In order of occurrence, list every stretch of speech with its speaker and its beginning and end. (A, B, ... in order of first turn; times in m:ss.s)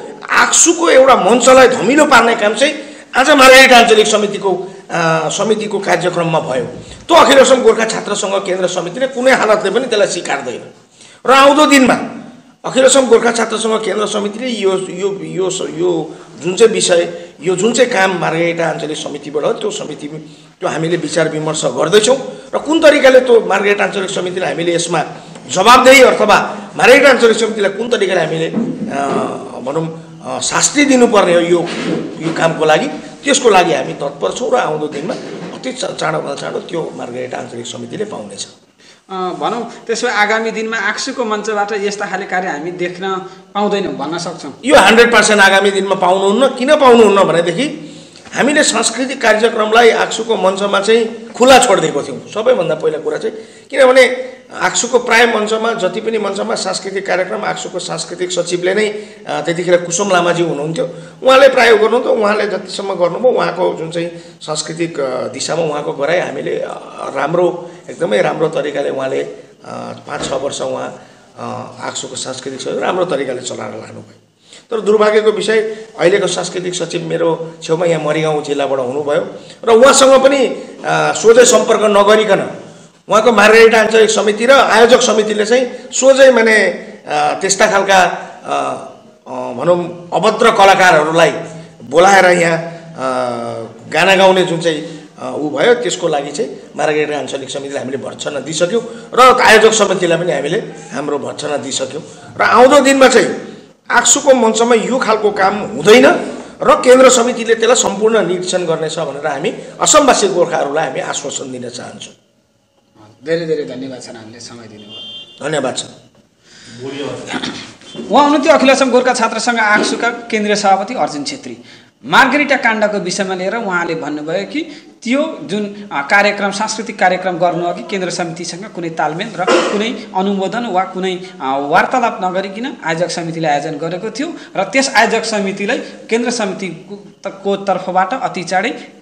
0:00.3-0:10.7 A
0:11.2-0:12.0 A
0:12.6-0:38.5 A
0:39.1-0:44.6 B
0:44.6-0:47.7 A
0:48.3-1:22.5 A
1:23.1-1:31.4 A
1:31.9-1:43.3 A
1:43.9-1:52.1 A
1:53.0-1:55.0 B
1:55.4-1:55.9 A
1:56.9-2:18.8 B